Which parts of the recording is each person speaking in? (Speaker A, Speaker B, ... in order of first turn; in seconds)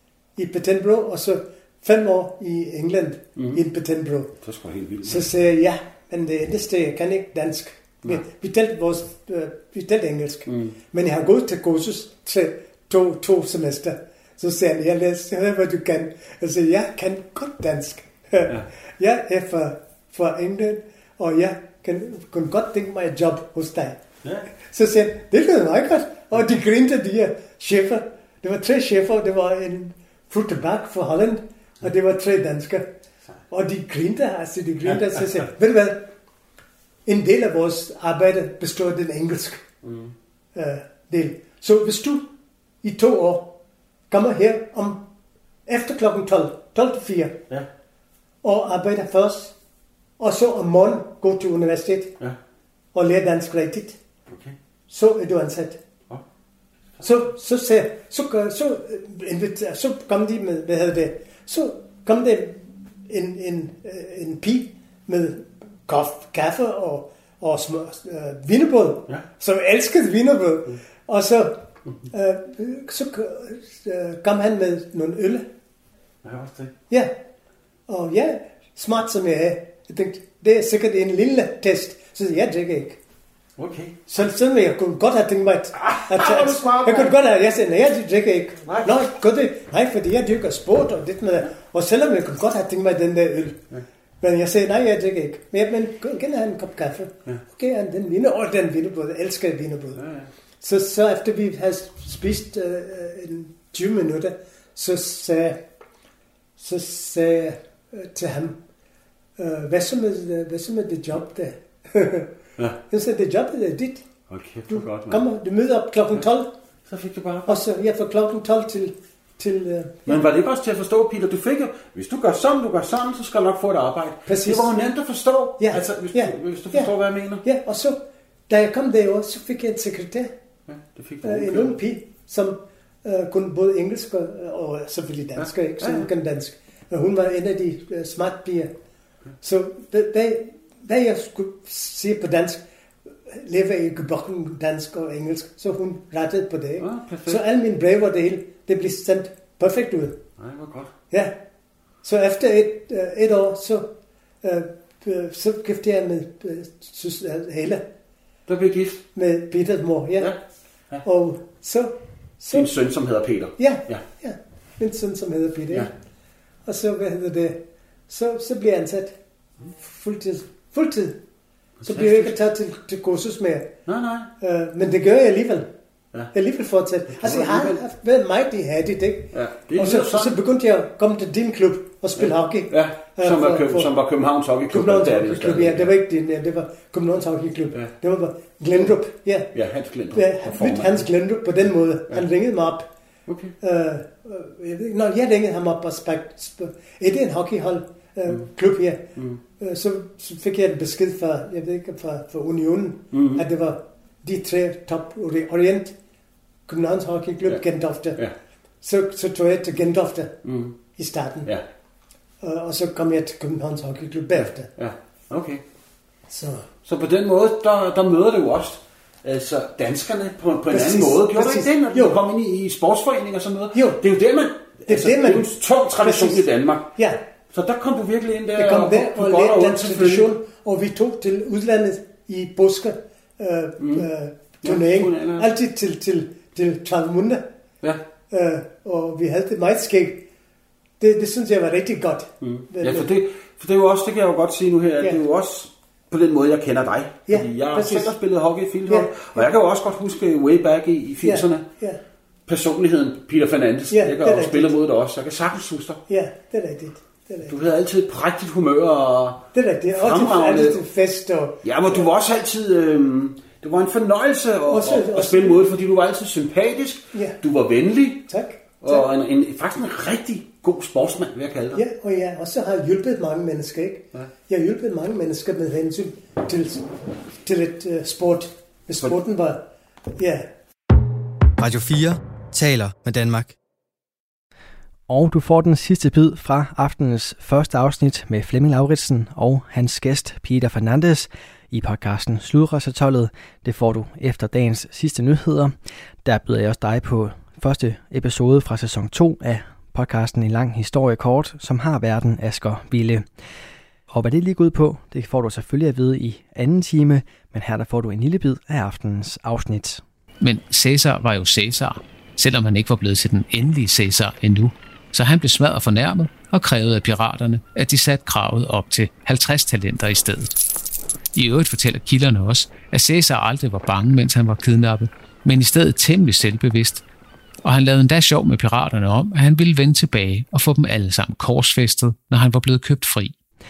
Speaker A: 0.3-4.3, 5.0-24.0, 24.5-32.9, 33.5-36.0, 37.0-39.6, 40.5-42.2, 42.8-43.5, 44.1-45.0, 45.7-47.4, 48.4-49.5, 50.2-52.1, 52.9-54.0, 54.9-55.8, 57.0-71.5, 72.1-75.4, 77.9-83.0, 84.1-93.6, 94.2-100.0, 100.6-105.6, 106.6-108.6, 109.4-112.3, 112.9-114.0, 114.7-116.5, 117.5-120.2, 124.2-124.7, 125.6-126.9, 127.4-130.3, 131.2-138.7, 139.4-142.6, 143.3-150.2, 151.1-151.3, 152.0-153.9, 154.4-157.8, 159.1-160.3, 161.0-162.7, 163.6-165.9, 166.7-169.2, 169.7-171.2, 171.8-173.7, 174.4-175.7, 176.3-183.9, 184.7-189.5, 190.1-192.9, 193.6-205.9, 206.7-208.2, 208.8-210.3, 210.9-211.5, 212.4-214.7, 216.3-216.7, 220.7-222.2, 223.7-224.0, 224.9-227.2, 228.6-237.4, 238.3-240.2, 241.0-243.1, 247.3-248.1, 248.9-249.4, 251.2-252.0, 253.9-254.8, 256.1-257.5, 259.5-262.0, 264.6-265.6, 268.3-269.1, 271.7-276.9, 277.4-279.6, 280.2-280.5
Speaker B: 4.4-5.3, 10.5-10.7, 39.8-40.1, 54.3-54.5, 76.2-76.7, 83.6-84.2, 85.7-87.1, 88.7-88.9, 100.0-100.3, 114.3-115.2, 116.9-117.6, 120.1-127.4, 130.7-131.7, 135.4-136.1, 146.8-147.4, 150.4-150.9, 158.5-159.0, 162.5-164.0, 171.8-172.3, 173.8-174.3, 177.2-177.8, 179.3-180.3, 182.2-185.9, 189.5-191.1, 193.3-193.5, 203.1-203.4, 210.4-210.7, 214.4-215.6, 216.8-226.9, 227.5-230.3, 233.8-234.1, 234.6-235.5, 242.4-251.6, 252.5-256.0, 257.5-260.8, 261.6-268.3, 268.8-271.8
Speaker C: 281.6-283.5
Speaker D: 285.1-295.7, 296.2-303.2, 304.1-310.0
Speaker E: 310.4-320.6, 321.3-327.0, 327.6-333.3